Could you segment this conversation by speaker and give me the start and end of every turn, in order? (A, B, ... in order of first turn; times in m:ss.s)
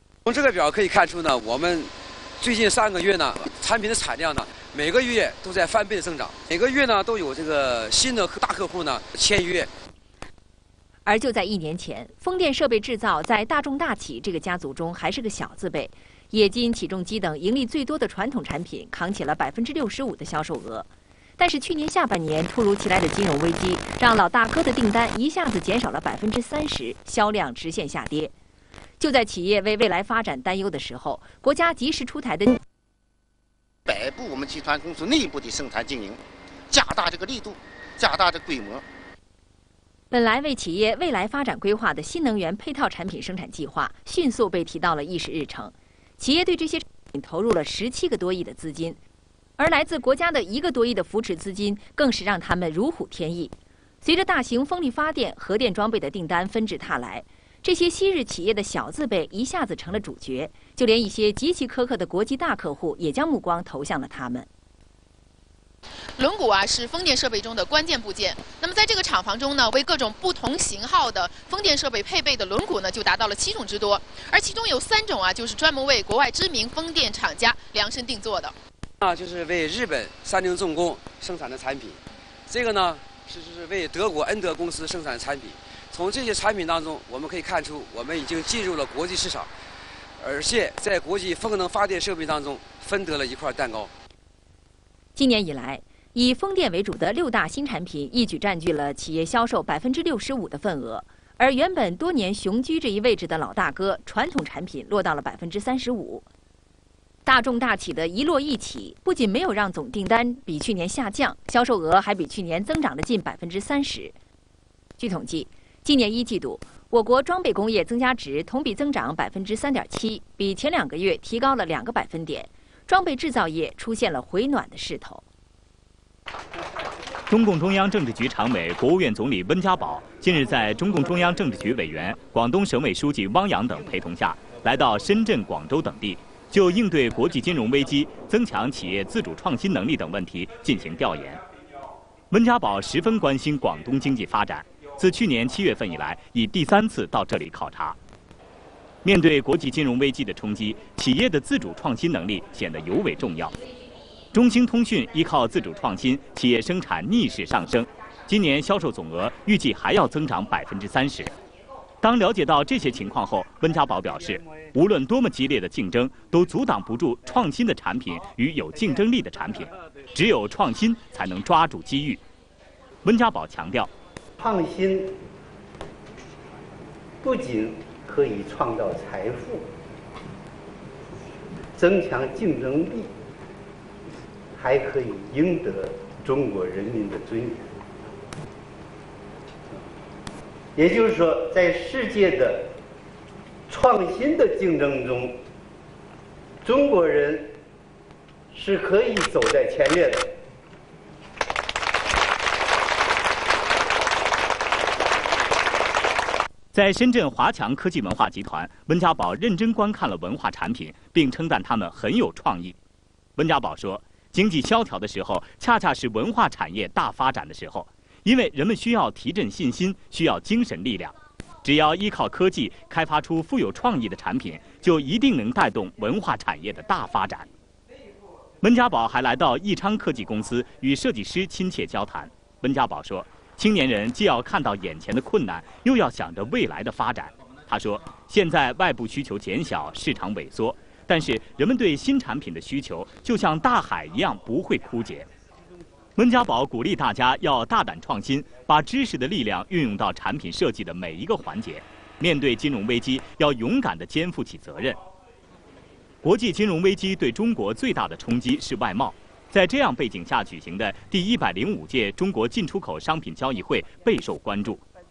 0:00.2-0:09.7 A
0:11.0-0:28.3 B
0:29.0-0:32.6 B
0:33.9-0:38.8 C
0:40.1-0:49.0 B
0:49.6-1:04.5 B
1:06.2-1:18.5 D
1:19.0-1:29.5 A
1:30.2-1:33.9 A
1:35.2-1:46.2 B
1:47.2-1:54.1 B
1:55.0-2:05.2 B
2:07.3-2:21.4 E
2:22.3-2:28.0 E
2:29.0-2:33.5 E
2:34.3-2:41.3 E
2:42.0-2:52.2 E
2:53.0-2:53.9 E
2:54.4-2:55.1 F
2:57.2-2:59.6 F
3:01.8-3:03.1 F
3:04.6-3:07.7 F
3:10.8-3:12.7 F
3:13.7-3:15.4 F
3:16.6-3:17.5 F
3:18.5-3:20.3 F
3:26.7-3:32.7 E
3:33.4-3:47.5 E
3:48.6-4:05.3 E
4:06.2-4:15.0 E
4:16.2-4:24.8 E